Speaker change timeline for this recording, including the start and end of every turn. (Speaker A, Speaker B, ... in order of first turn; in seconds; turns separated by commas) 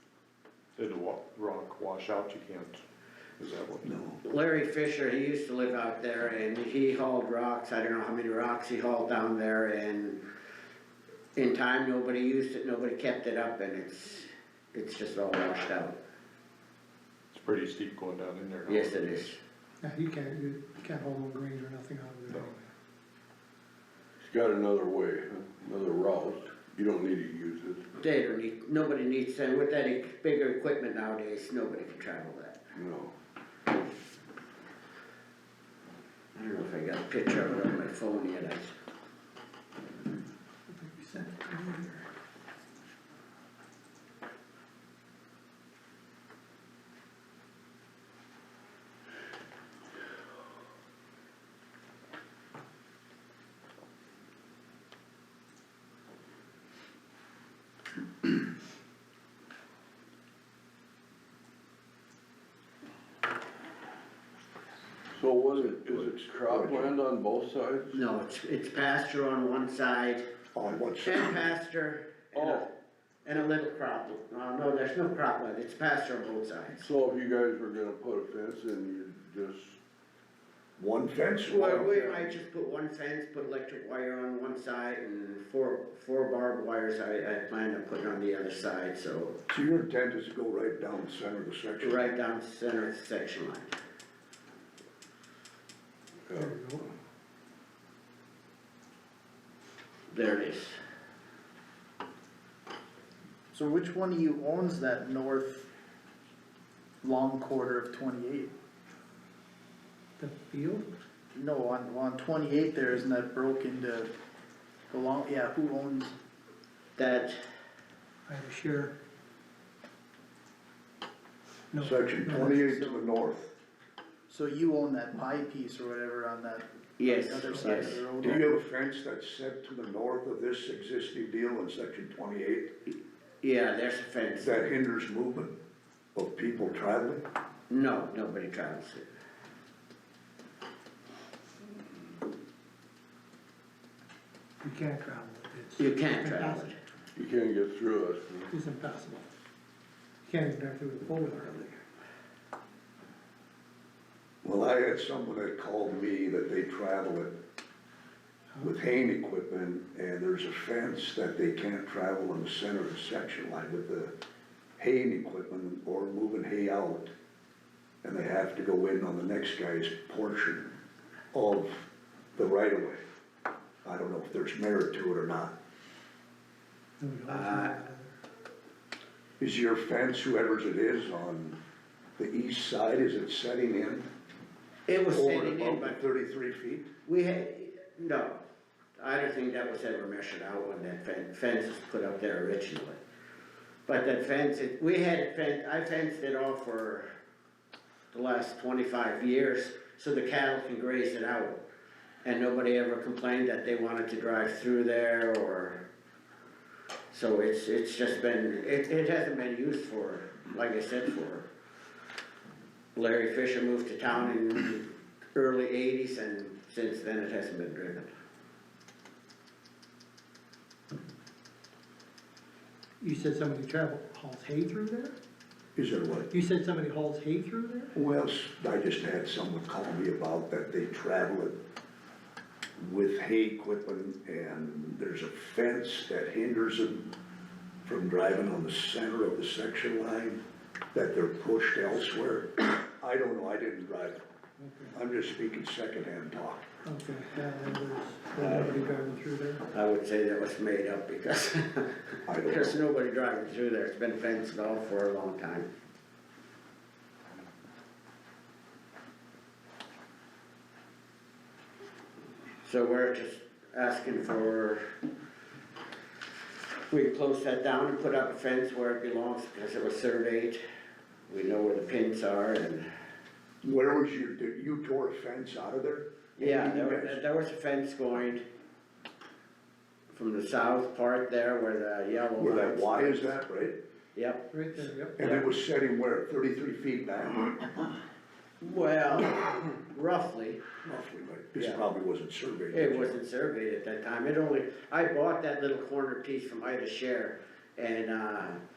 Speaker A: 0.8-2.8, Speaker A: 3.4-3.9, Speaker B: 3.8-4.2, Speaker C: 4.2-10.2, Speaker C: 11.4-16.0, Speaker A: 17.3-19.2, Speaker C: 18.7-19.4, Speaker D: 19.8-22.7, Speaker E: 24.2-27.8, Speaker C: 28.0-32.6, Speaker E: 32.8-33.1, Speaker C: 36.4-38.8, Speaker D: 40.7-42.0, Speaker E: 65.1-68.0, Speaker B: 65.5-66.9, Speaker C: 67.9-70.3, Speaker B: 70.5-71.4, Speaker C: 71.0-72.7, Speaker E: 72.3-72.7, Speaker C: 73.2-76.9, Speaker E: 76.8-79.8, Speaker B: 80.8-82.3, Speaker C: 81.5-89.4, Speaker B: 89.5-92.1, Speaker C: 91.8-93.7, Speaker E: 96.3-96.5, Speaker D: 96.4-96.9, Speaker C: 100.1-100.8, Speaker F: 103.5-105.7, Speaker F: 107.0-108.5, Speaker D: 110.2-110.9, Speaker F: 111.3-114.1, Speaker F: 114.9-116.1, Speaker C: 117.0-117.4, Speaker D: 118.3-118.9, Speaker D: 121.7-122.5, Speaker B: 121.8-123.5, Speaker F: 122.3-123.1, Speaker F: 124.3-128.5, Speaker C: 127.0-128.0, Speaker B: 128.2-132.7, Speaker C: 133.4-134.6, Speaker B: 134.4-135.5, Speaker B: 136.2-137.2, Speaker C: 137.7-139.1, Speaker D: 144.6-146.7, Speaker C: 145.8-146.8, Speaker E: 147.2-148.5, Speaker D: 148.5-149.3, Speaker D: 150.3-151.7, Speaker B: 154.4-157.4, Speaker B: 158.6-164.1, Speaker B: 164.8-167.1, Speaker B: 168.0-170.7, Speaker B: 171.3-173.0, Speaker B: 173.8-175.6, Speaker D: 177.0-178.2, Speaker C: 177.3-177.8, Speaker B: 179.4-181.6, Speaker B: 182.2-184.1, Speaker C: 184.9-186.0, Speaker B: 185.1-186.9, Speaker C: 187.1-188.4, Speaker C: 189.0-193.0, Speaker C: 193.9-197.1, Speaker C: 198.1-201.6, Speaker C: 202.2-205.8, Speaker C: 207.1-211.5, Speaker C: 212.9-218.1, Speaker D: 223.0-225.2, Speaker B: 225.8-226.3, Speaker D: 226.3-227.9, Speaker B: 227.9-231.6, Speaker B: 232.8-237.1, Speaker B: 237.8-240.4, Speaker B: 240.9-244.2, Speaker D: 244.6-244.9, Speaker B: 244.9-246.6, Speaker D: 246.8-249.6, Speaker C: 248.4-248.8, Speaker C: 249.7-255.7, Speaker B: 252.3-252.8, Speaker C: 262.6-264.8, Speaker C: 266.9-270.6, Speaker C: 271.3-272.9, Speaker B: 273.6-277.2, Speaker C: 276.4-278.4, Speaker C: 280.1-283.3, Speaker B: 282.4-283.8, Speaker C: 284.1-284.5, Speaker D: 284.5-285.2, Speaker B: 285.2-287.8, Speaker C: 288.6-290.6, Speaker B: 290.8-293.2, Speaker C: 292.7-298.6